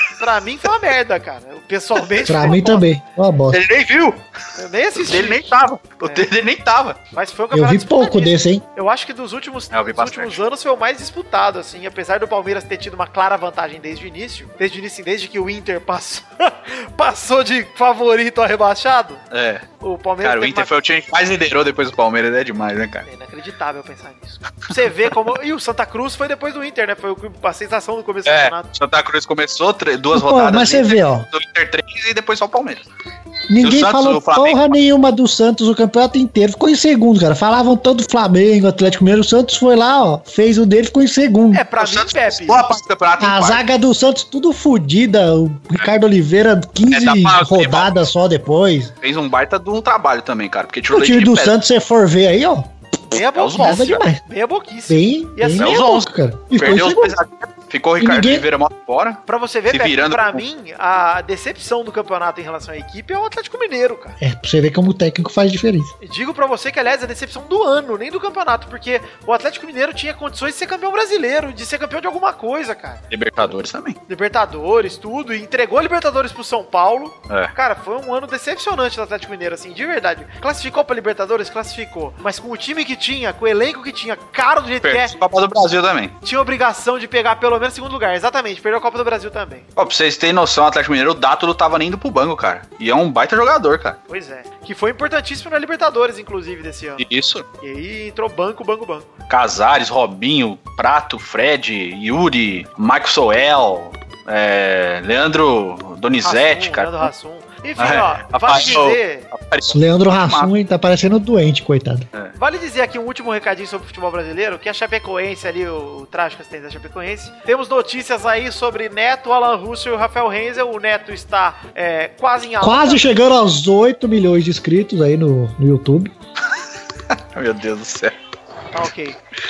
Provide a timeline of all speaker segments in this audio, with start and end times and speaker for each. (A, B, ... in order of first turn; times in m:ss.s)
0:00.2-0:02.8 A
0:02.1-0:02.6 B
0:02.2-0:03.6 C
0:03.5-0:04.2 B
0:04.6-0:05.5 A
0:04.9-0:07.0 B
0:07.1-0:19.2 A
0:07.5-0:08.6 C
0:09.7-0:10.4 B
0:19.3-0:19.6 B
0:19.8-0:20.7 A
0:20.2-0:23.1 B
0:23.0-0:28.7 A
0:28.2-0:32.9 B
0:30.1-0:31.3 C
0:33.5-0:41.6 C
0:33.6-0:34.8 B
0:41.5-0:42.6 A
0:41.8-0:43.6 B
0:43.2-0:48.9 C
0:46.9-0:47.9 B
0:49.0-0:51.6 B
0:50.9-0:54.2 C
0:53.1-0:55.8 A
0:53.4-0:53.9 B
0:54.9-0:57.2 C
0:55.6-1:00.4 B
0:58.0-0:58.4 C
0:59.3-1:04.2 A
1:04.2-1:05.9 C
1:06.0-1:13.0 A
1:13.1-1:14.0 B
1:14.1-1:25.1 A
1:24.8-1:26.1 B
1:26.2-1:29.7 A
1:29.8-1:34.0 B
1:34.1-1:37.0 A
1:37.0-1:37.4 B
1:37.6-1:39.1 A
1:39.3-1:47.1 B
1:46.2-1:49.3 A
1:47.8-1:50.5 B
1:49.7-1:52.1 C
1:52.4-2:03.1 A
2:02.6-2:06.1 C
2:07.1-2:08.1 B
2:08.7-2:09.2 A